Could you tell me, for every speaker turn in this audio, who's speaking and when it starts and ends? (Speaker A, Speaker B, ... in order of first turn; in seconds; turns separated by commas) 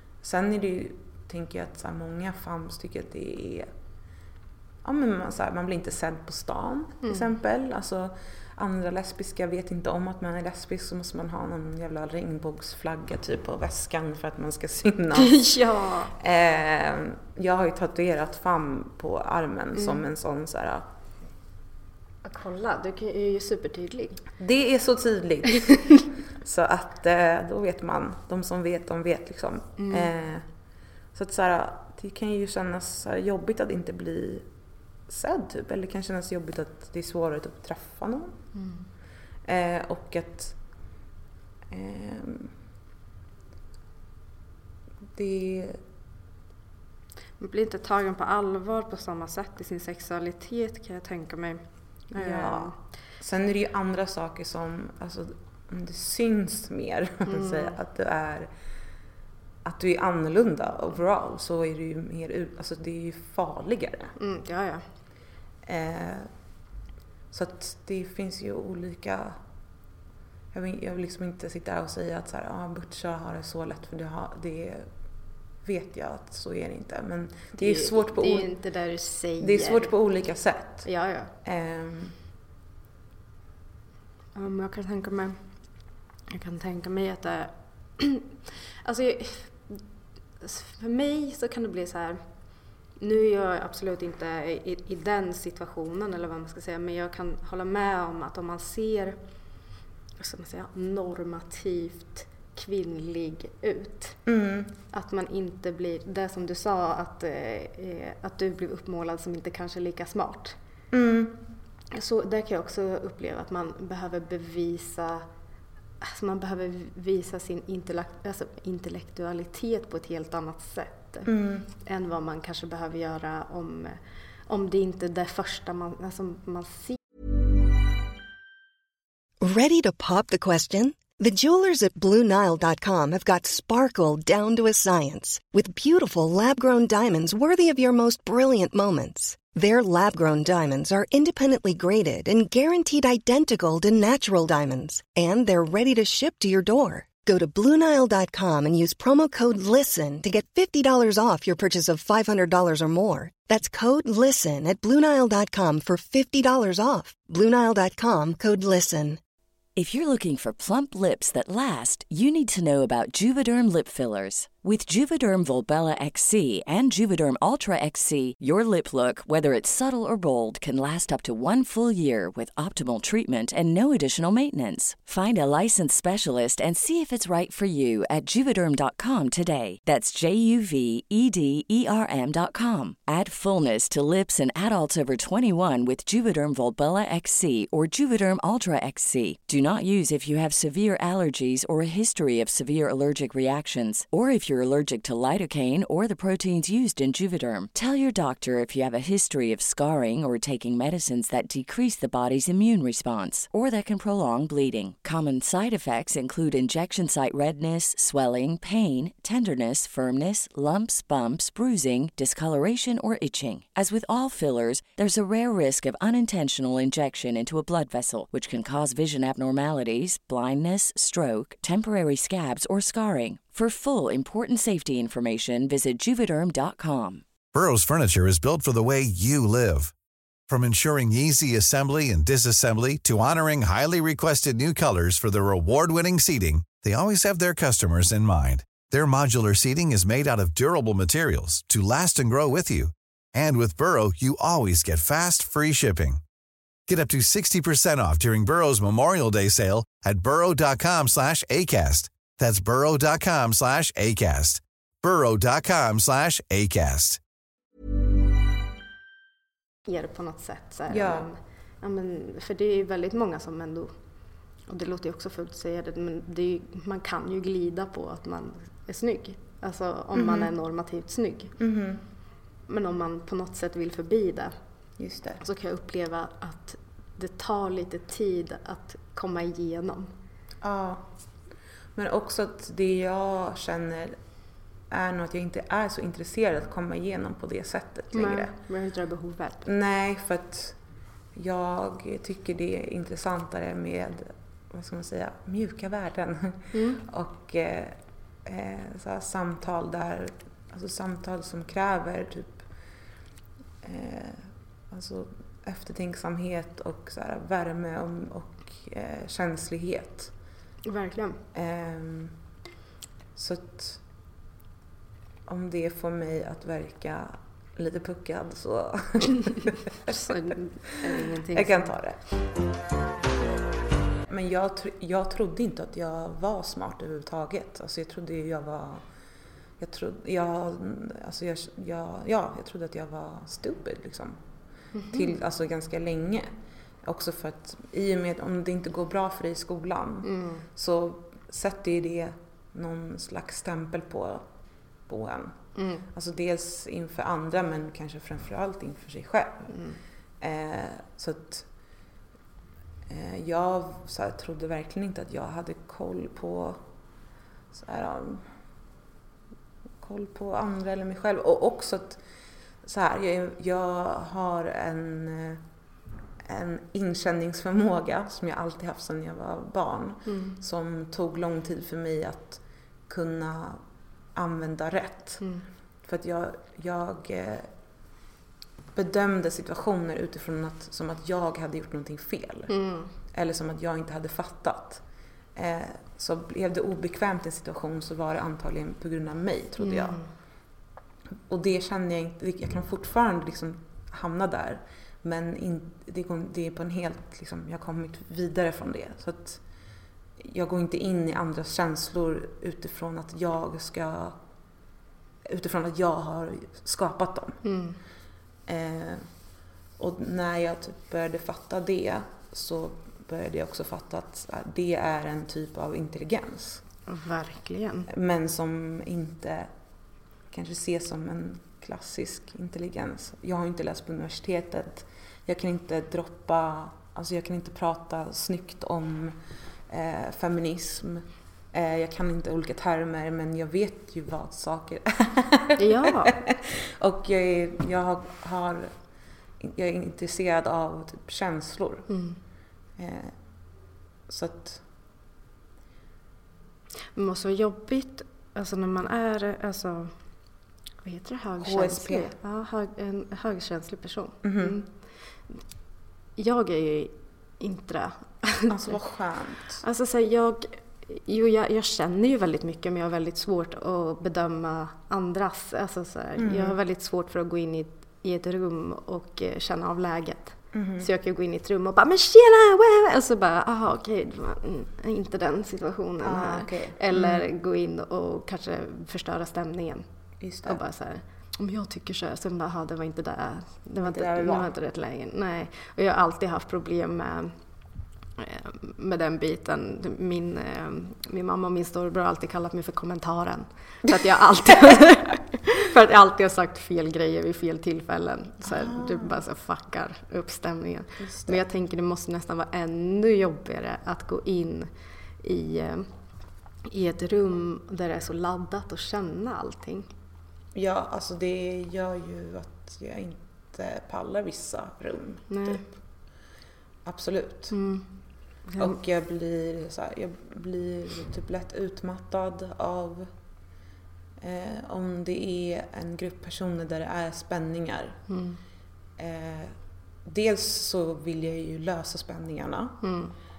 Speaker A: 0.2-3.7, Speaker A: 4.8-15.6, Speaker B: 15.2-16.1, Speaker A: 16.1-20.9, Speaker B: 19.8-20.0, Speaker B: 22.2-24.2, Speaker A: 24.4-30.5, Speaker B: 29.8-30.1, Speaker A: 31.1-34.5, Speaker A: 35.1-38.4, Speaker B: 38.5-38.9, Speaker A: 39.5-40.6, Speaker A: 41.7-42.5, Speaker A: 45.1-45.8, Speaker B: 47.4-52.7, Speaker A: 52.2-58.5, Speaker B: 57.3-57.8, Speaker A: 59.6-64.1, Speaker B: 64.2-64.8, Speaker A: 65.7-66.3, Speaker A: 67.3-69.4, Speaker A: 70.5-74.9, Speaker A: 75.6-78.5, Speaker B: 77.6-79.9, Speaker A: 79.4-80.9, Speaker B: 80.8-81.3, Speaker A: 81.4-82.2, Speaker B: 84.3-85.4, Speaker B: 86.3-88.3, Speaker B: 88.8-89.8, Speaker B: 90.4-92.2, Speaker B: 93.0-99.2, Speaker B: 100.2-104.2, Speaker A: 104.3-104.8, Speaker B: 104.9-110.6, Speaker A: 110.9-111.4, Speaker B: 111.9-115.3, Speaker B: 116.0-127.0, Speaker A: 121.3-121.7, Speaker C: 129.4-159.2, Speaker D: 159.8-227.2, Speaker E: 227.5-229.9, Speaker E: 230.5-246.2, Speaker E: 246.9-257.2, Speaker B: 259.9-263.9, Speaker A: 260.9-261.3, Speaker B: 264.7-271.5, Speaker A: 270.1-270.5, Speaker A: 271.6-272.0, Speaker B: 272.7-274.5, Speaker A: 275.0-275.4, Speaker B: 275.4-280.1, Speaker A: 280.6-281.1, Speaker A: 281.9-284.2, Speaker A: 284.9-288.5, Speaker B: 288.1-289.7, Speaker A: 289.6-290.8, Speaker A: 291.4-302.6, Speaker B: 296.7-297.0, Speaker A: 303.8-310.3, Speaker B: 310.9-311.4, Speaker A: 311.5-312.4, Speaker A: 313.4-314.0, Speaker A: 315.5-320.4, Speaker B: 320.1-321.9, Speaker A: 321.5-322.2, Speaker A: 324.3-329.0, Speaker A: 329.8-334.4, Speaker B: 334.9-335.3, Speaker A: 335.1-336.5, Speaker A: 337.0-344.4, Speaker B: 340.2-340.7, Speaker A: 345.1-349.7, Speaker B: 345.8-346.1, Speaker B: 349.7-350.0, Speaker A: 350.4-351.7, Speaker A: 353.1-356.8, Speaker A: 357.7-358.5, Speaker A: 360.0-362.2, Speaker A: 362.8-365.6, Speaker A: 366.5-373.8, Speaker B: 370.3-370.6, Speaker A: 374.3-375.4, Speaker B: 375.4-375.6, Speaker A: 376.0-377.7, Speaker A: 378.9-382.8, Speaker B: 382.7-383.1, Speaker A: 383.3-385.0, Speaker A: 385.6-390.2, Speaker B: 389.8-390.3, Speaker A: 391.5-399.6, Speaker A: 400.4-404.4, Speaker A: 405.5-407.6, Speaker B: 407.6-408.0, Speaker A: 408.7-409.3, Speaker A: 410.0-416.8, Speaker B: 417.1-418.1, Speaker A: 418.1-419.7, Speaker A: 420.5-429.4, Speaker A: 429.9-438.9, Speaker B: 435.8-436.3, Speaker A: 439.6-442.1, Speaker B: 442.1-442.4, Speaker A: 443.0-443.4, Speaker A: 444.3-444.8, Speaker B: 447.1-450.1, Speaker B: 451.0-454.9, Speaker A: 451.6-452.3, Speaker A: 454.4-454.8, Speaker B: 456.4-458.7, Speaker A: 458.7-459.8, Speaker B: 459.8-480.1, Speaker A: 466.4-466.8, Speaker A: 470.7-471.1, Speaker A: 476.2-477.4, Speaker A: 480.4-480.8, Speaker B: 480.7-487.5, Speaker A: 484.0-484.7, Speaker B: 488.4-506.1, Speaker A: 498.6-499.4, Speaker A: 501.2-501.6, Speaker B: 506.9-510.1, Speaker A: 510.7-515.9, Speaker B: 515.5-515.8, Speaker A: 517.0-517.8, Speaker B: 517.7-518.1, Speaker B: 518.6-519.0, Speaker A: 518.8-523.3, Speaker A: 524.4-528.2, Speaker B: 528.3-528.6, Speaker A: 529.2-529.7, Speaker A: 530.3-533.0, Speaker B: 533.0-533.3